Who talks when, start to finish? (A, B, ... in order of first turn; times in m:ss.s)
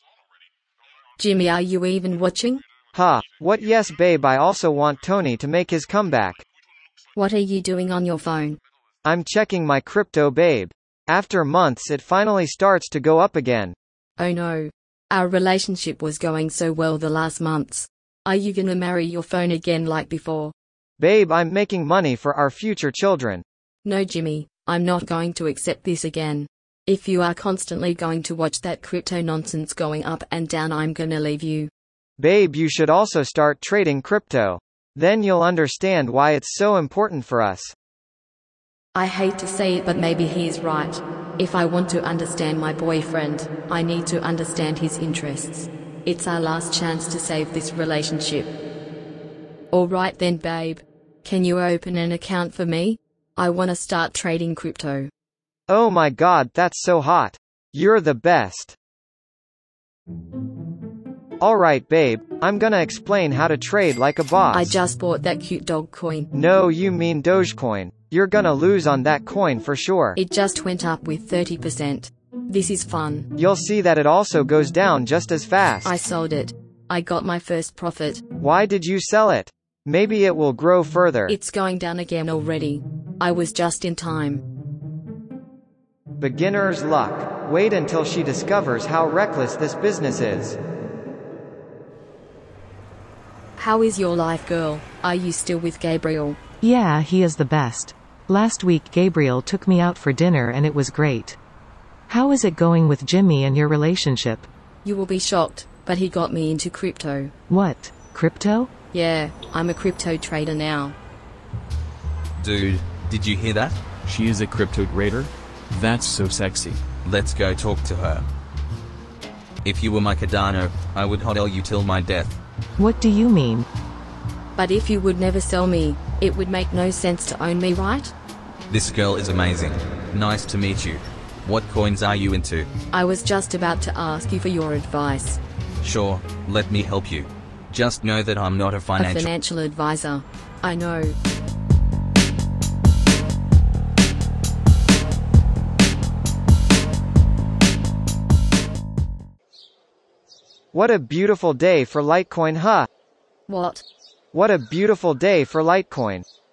0:01.2-0:02.6 A
0:03.0-0:06.4 B
0:07.2-0:08.6 A
0:09.0-0:13.8 B
0:14.2-0:20.5 A
0:21.0-0:23.4 B
0:23.8-0:31.7 A
0:32.2-0:37.8 B
0:39.0-0:48.5 A
0:49.7-0:55.1 A
0:55.7-0:58.8 B
1:01.4-1:04.7 B
1:04.5-1:06.3 A
1:06.3-1:10.2 B
1:10.2-1:13.3 A
1:13.4-1:15.9 B
1:15.8-1:18.2 A
1:18.4-1:21.4 B
1:21.3-1:24.4 A
1:26.2-1:30.6 B
1:33.6-1:36.4 A
1:36.6-1:41.4 C
1:42.1-1:44.5 C
1:44.8-1:47.3 A
1:47.5-1:48.7 C
1:48.9-1:51.0 A
1:52.4-1:53.8 D
1:54.1-1:56.8 E
1:57.0-1:58.2 D
1:59.6-2:02.4 D
2:02.8-2:03.7 C
2:04.6-2:08.1 A
2:08.7-2:12.7 D
2:12.9-2:15.4 A
2:15.8-2:19.3 D
2:19.0-2:21.2 A
2:30.7-2:32.9 B
2:33.5-2:33.8 A
2:34.3-2:36.2 B